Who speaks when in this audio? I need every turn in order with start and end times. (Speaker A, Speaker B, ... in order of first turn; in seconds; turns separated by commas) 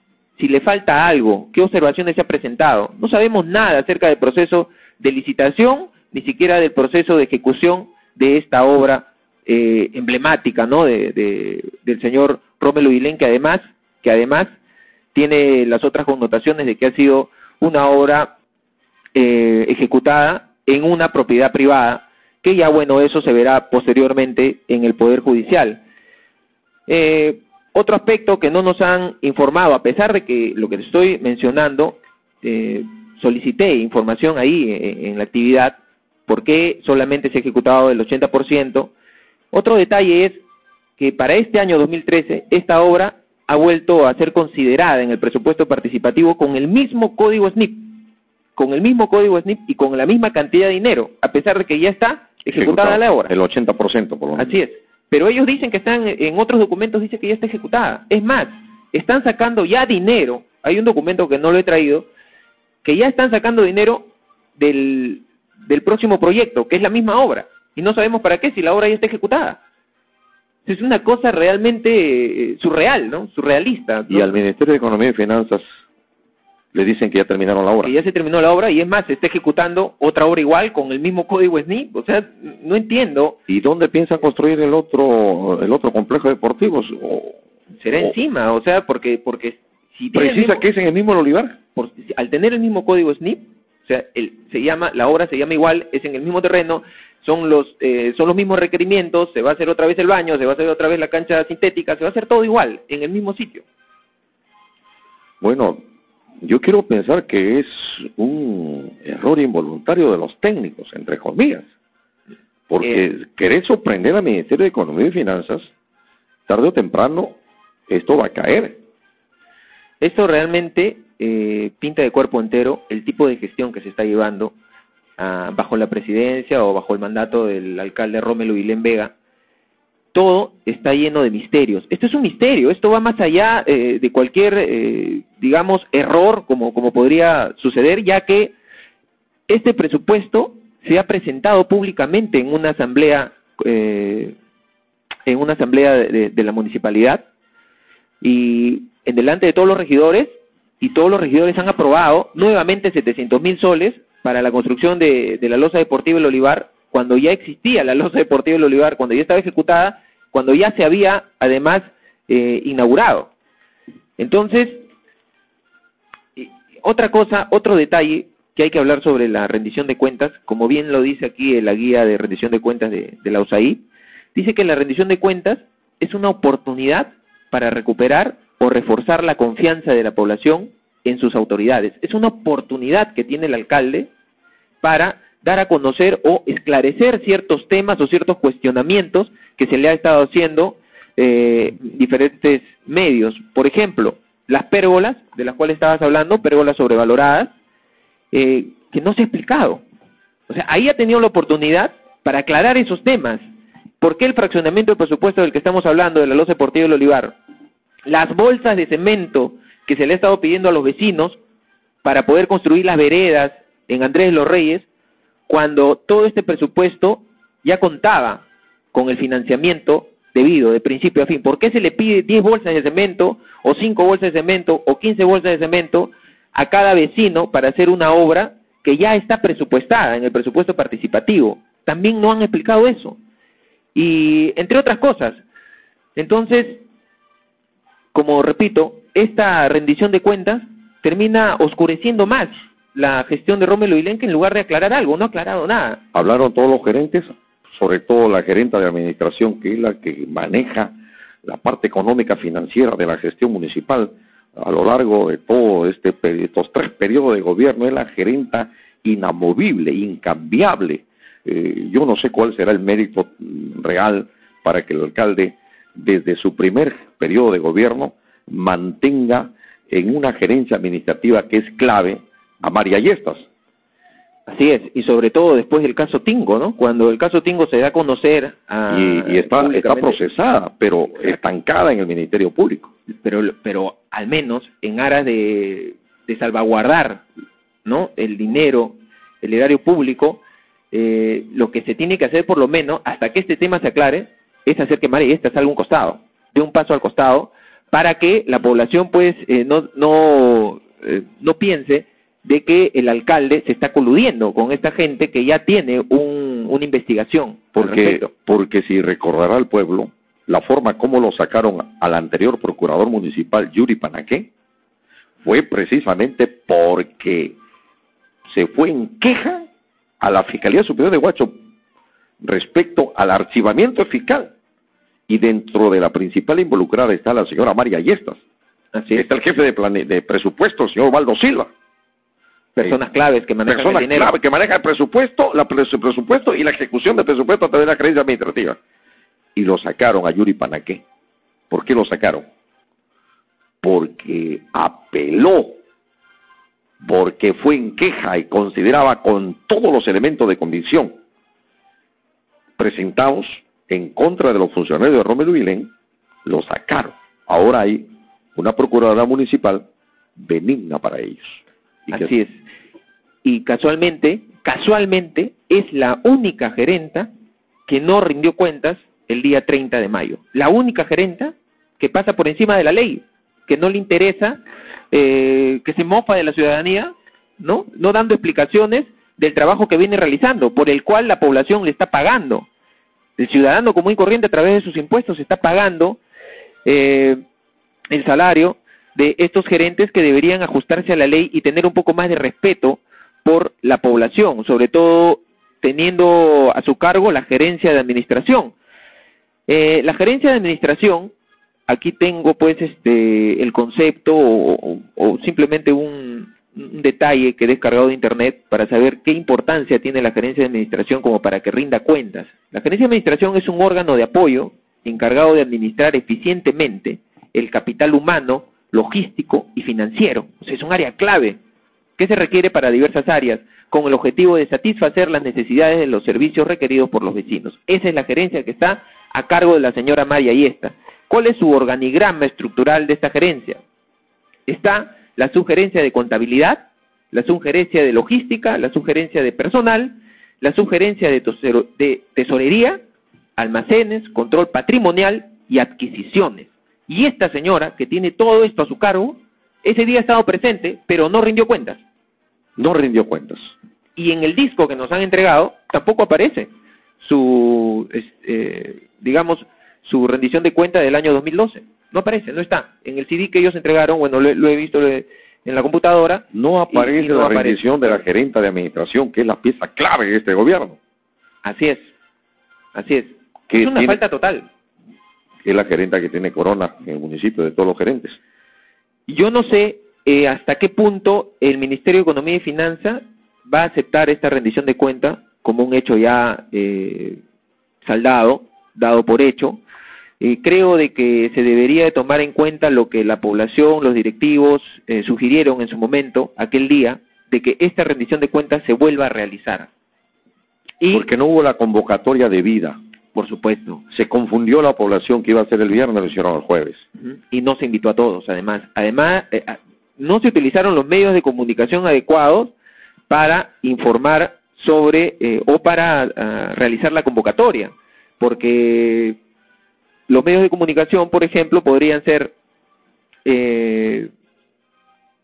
Speaker A: 0.4-14.5, Speaker A: 15.1-18.3, Speaker A: 19.1-25.8, Speaker A: 26.9-38.9, Speaker A: 39.5-40.4, Speaker A: 41.0-48.0, Speaker A: 48.6-53.3, Speaker B: 52.5-54.6, Speaker A: 54.4-62.1, Speaker A: 62.8-69.6, Speaker A: 70.7-74.3, Speaker B: 74.1-75.8, Speaker B: 76.7-77.9, Speaker A: 77.8-83.4, Speaker B: 83.5-87.4, Speaker A: 87.8-90.7, Speaker B: 90.2-91.6, Speaker A: 91.8-103.6, Speaker B: 105.4-105.8, Speaker B: 106.4-111.7, Speaker B: 112.7-115.7, Speaker B: 116.5-117.4, Speaker B: 117.9-118.8, Speaker A: 120.0-124.5, Speaker A: 125.2-129.1, Speaker A: 130.1-138.5, Speaker A: 139.5-144.4, Speaker A: 145.3-147.2, Speaker A: 148.2-163.3, Speaker A: 164.2-164.8, Speaker A: 166.4-173.8, Speaker A: 174.3-184.1, Speaker A: 184.8-197.5, Speaker A: 198.3-199.8, Speaker A: 200.5-203.4, Speaker A: 204.0-207.4, Speaker A: 208.1-211.4, Speaker A: 212.0-214.9, Speaker A: 215.5-233.2, Speaker A: 233.9-235.4, Speaker A: 236.2-236.8, Speaker A: 238.1-246.0, Speaker B: 246.1-250.9, Speaker B: 251.4-273.5, Speaker A: 274.5-280.2, Speaker B: 278.9-282.9, Speaker A: 283.1-287.2, Speaker A: 287.9-290.4, Speaker A: 290.9-308.3, Speaker B: 307.8-314.5, Speaker B: 315.4-317.6, Speaker B: 318.5-319.7, Speaker B: 320.2-321.5, Speaker B: 322.4-324.5, Speaker B: 325.3-328.4, Speaker A: 328.9-329.2, Speaker B: 329.1-331.7, Speaker A: 332.8-334.3, Speaker B: 333.7-338.8, Speaker B: 339.6-341.0, Speaker B: 341.7-342.4, Speaker B: 343.8-345.8, Speaker B: 347.0-351.1, Speaker B: 352.8-355.9, Speaker B: 356.4-359.9, Speaker B: 360.4-362.3, Speaker A: 362.1-362.6, Speaker A: 363.4-367.3, Speaker A: 367.9-374.6, Speaker A: 375.1-382.7, Speaker A: 383.4-386.2, Speaker A: 386.9-387.4, Speaker A: 388.1-398.7, Speaker A: 399.7-401.3, Speaker A: 401.9-421.6, Speaker A: 422.2-433.8, Speaker A: 434.7-443.0, Speaker A: 443.6-452.0, Speaker B: 452.8-453.7, Speaker A: 454.2-468.2, Speaker B: 466.5-471.0, Speaker A: 471.6-472.1, Speaker A: 472.9-474.7, Speaker B: 473.7-474.2, Speaker B: 475.6-478.4, Speaker A: 479.3-487.4, Speaker A: 488.0-489.8, Speaker A: 490.4-499.9, Speaker A: 501.0-501.3, Speaker B: 501.1-503.0, Speaker A: 503.4-504.0, Speaker B: 504.1-507.1, Speaker A: 507.2-512.7, Speaker A: 513.3-519.4, Speaker A: 520.3-522.5, Speaker A: 523.5-524.3